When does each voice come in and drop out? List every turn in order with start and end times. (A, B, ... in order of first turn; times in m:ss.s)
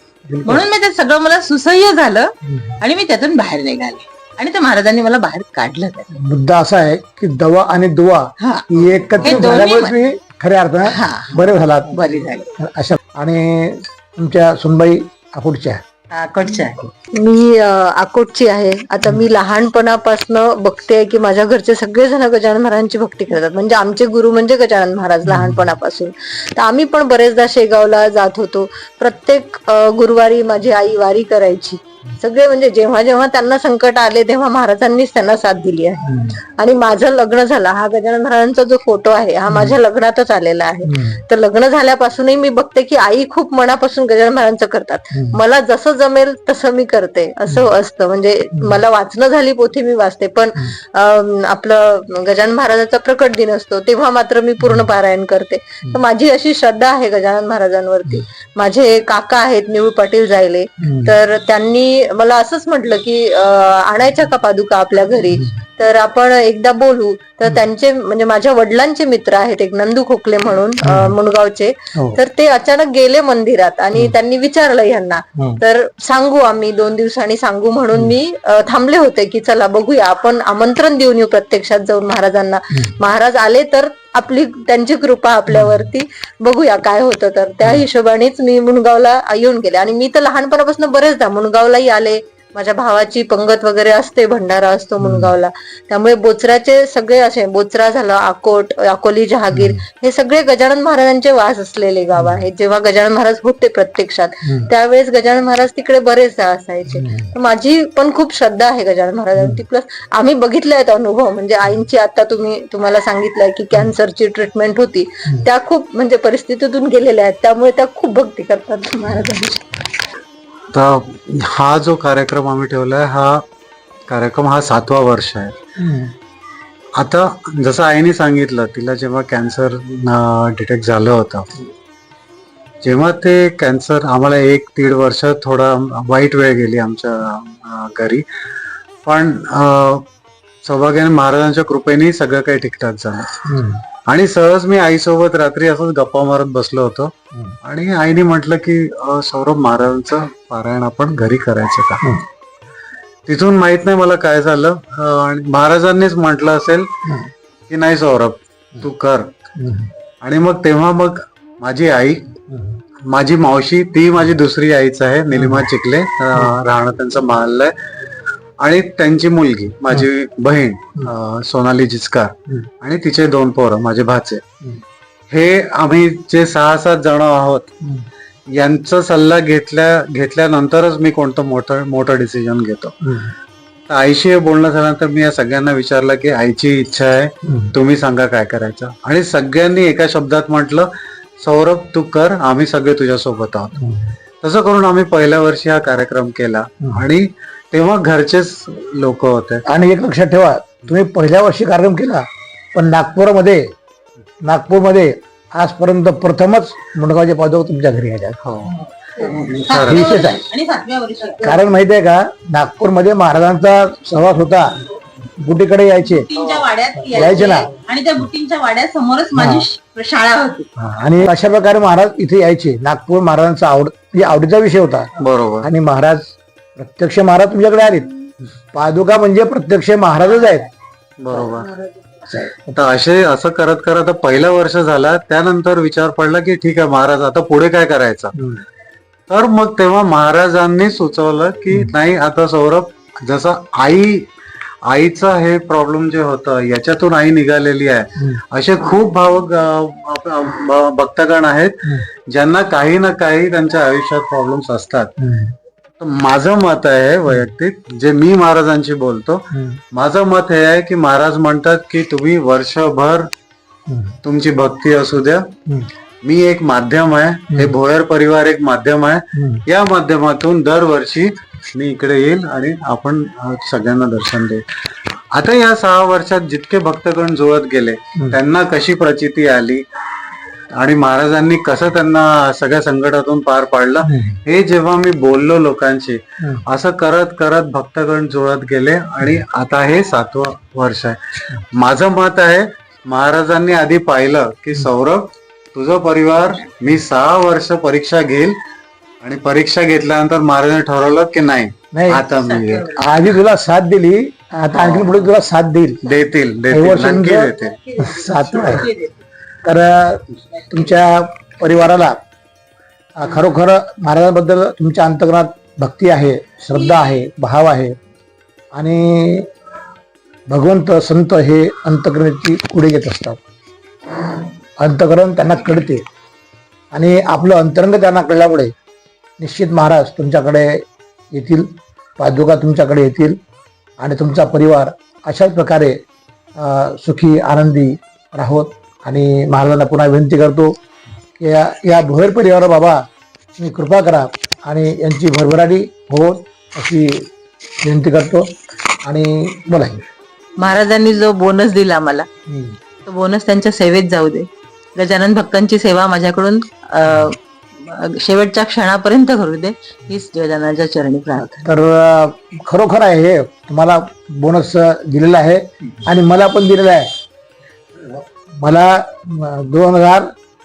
0:00.3-0:00.6 A
0:00.4-0:06.1 B
0:02.5-0:02.8 A
0:06.1-0:12.0 A
0:08.4-0:09.9 B
0:10.9-0:12.5 B
0:12.6-0:15.8 A
0:16.1-0:16.8 B
0:17.1-0:36.0 C
0:25.3-0:25.6 A
0:36.1-0:36.4 A
0:36.6-1:59.6 C
0:39.5-0:39.8 A
0:40.9-0:41.2 A
0:45.1-0:45.4 A
1:00.8-1:01.1 A
1:10.8-1:11.2 A
1:25.5-1:25.9 A
1:35.0-1:35.3 A
1:39.5-1:39.8 A
1:42.2-1:42.4 A
1:47.0-1:47.3 A
2:00.7-2:03.3 D
2:04.1-2:05.5 D
2:05.8-2:06.1 A
2:07.0-2:11.4 D
2:12.8-2:18.2 D
2:19.1-2:20.0 D
2:20.6-2:23.3 D
2:23.5-2:23.8 A
2:24.1-2:27.1 D
2:27.6-2:32.1 D
2:33.3-2:36.8 D
2:37.7-2:39.3 D
2:39.6-2:39.9 A
2:40.2-2:42.2 D
2:43.1-2:47.7 D
2:45.3-2:45.7 A
2:48.6-2:52.3 D
2:52.8-2:54.4 D
2:55.3-2:57.7 D
2:58.6-3:02.9 D
3:03.9-3:10.9 D
3:11.4-3:13.9 D
3:14.4-3:19.6 D
3:19.7-3:23.7 A
3:24.4-3:28.4 A
3:28.4-3:30.0 D
3:28.7-3:31.6 B
3:29.8-3:30.4 A
3:31.4-3:34.7 A
3:35.4-3:36.3 A
3:36.3-3:40.7 B
3:37.1-3:37.7 A
3:39.4-3:39.6 A
3:40.8-3:45.1 A
3:45.2-3:45.7 D
3:45.6-3:48.1 A
3:48.7-3:50.7 A
3:51.2-3:51.7 D
3:52.3-3:52.8 A
3:52.7-3:58.3 D
3:58.4-3:58.6 A
3:59.3-4:04.2 D
4:04.9-4:15.1 D
4:15.2-4:15.5 A
4:16.0-4:19.4 D
4:19.5-4:19.8 A
4:19.9-4:23.2 D
4:23.9-4:24.2 A
4:24.2-4:25.4 D
4:26.2-4:34.6 D
4:29.4-4:29.6 A
4:35.4-4:39.8 D
4:40.8-4:51.2 D
4:44.1-4:44.4 A
4:51.8-4:58.5 D
4:59.2-5:02.9 D
5:01.9-5:02.2 A
5:02.3-5:03.3 B
5:03.0-5:06.0 A
5:04.7-5:05.1 D
5:06.0-5:07.8 D
5:06.7-5:08.9 A
5:07.9-5:09.1 B
5:09.6-5:12.2 A
5:13.2-5:18.0 A
5:18.8-5:19.5 A
5:20.5-5:23.4 A
5:24.8-5:26.0 A
5:26.9-5:28.7 A
5:29.4-5:30.8 A
5:31.3-5:33.4 A
5:34.0-5:36.0 A
5:36.6-5:40.7 A
5:41.4-5:43.0 A
5:43.6-5:47.3 A
5:47.8-5:48.5 A
5:49.0-5:50.0 A
5:50.6-5:52.3 B
5:52.5-5:52.8 A
5:53.1-6:01.7 B
6:01.6-6:07.1 A
6:08.1-6:10.3 A